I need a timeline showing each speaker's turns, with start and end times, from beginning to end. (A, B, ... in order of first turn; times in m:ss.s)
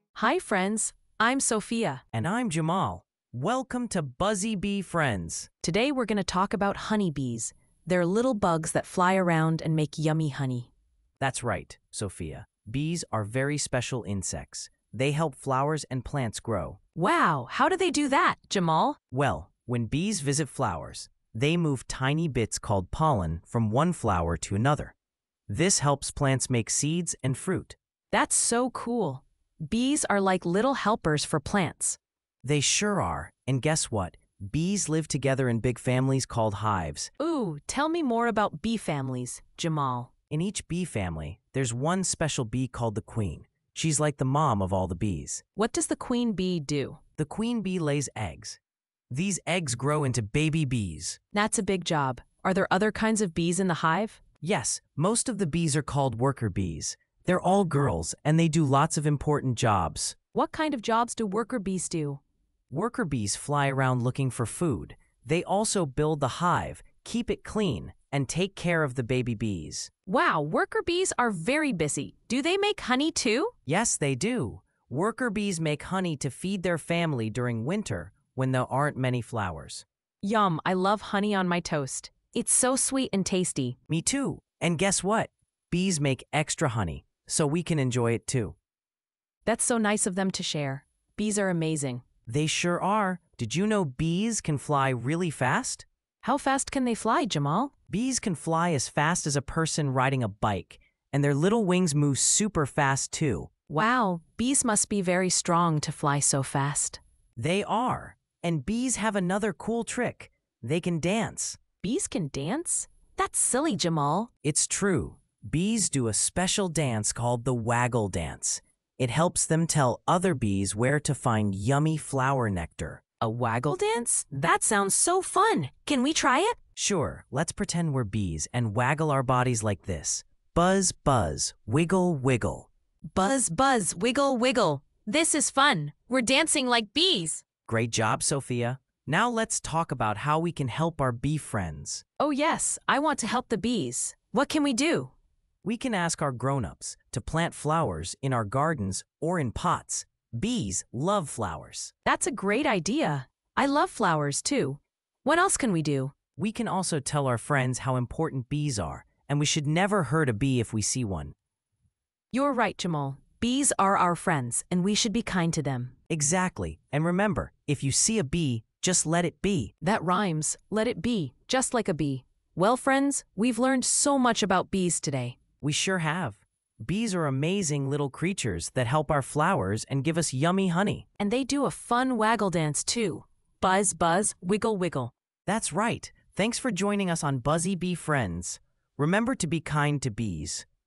0:00.2-0:02.0 A
0:02.1-0:05.5 B
0:05.6-0:10.7 A
0:11.2-0:16.8 B
0:17.0-0:19.0 A
0:19.1-0:24.9 B
0:25.5-0:27.8 B
0:28.1-0:32.0 A
0:32.4-0:37.1 B
0:37.2-0:40.1 A
0:40.3-0:45.4 B
0:45.6-0:47.0 A
0:47.2-0:48.6 B
0:49.1-0:51.2 B
0:51.3-0:54.2 A
0:54.4-1:00.2 B
1:00.3-1:02.2 A
1:02.7-1:09.9 B
1:10.1-1:13.5 A
1:13.7-1:19.8 B
1:20.2-1:23.8 A
1:23.9-1:28.6 B
1:29.4-1:32.0 A
1:32.3-1:35.8 B
1:36.2-1:37.7 A
1:37.9-1:43.5 B
1:43.7-1:47.0 A
1:47.4-1:51.6 B
1:51.8-1:54.3 A
1:54.4-2:03.0 B
2:03.2-2:06.6 A
2:06.8-2:12.7 B
2:13.1-2:17.4 A
2:17.7-2:22.0 B
2:22.2-2:25.1 A
2:25.6-2:31.9 B
2:32.1-2:36.1 A
2:36.4-2:41.3 B
2:42.3-2:45.9 A
2:46.1-2:49.7 B
2:49.8-2:55.4 A
2:55.6-3:01.1 B
3:01.2-3:05.1 A
3:05.4-3:10.7 B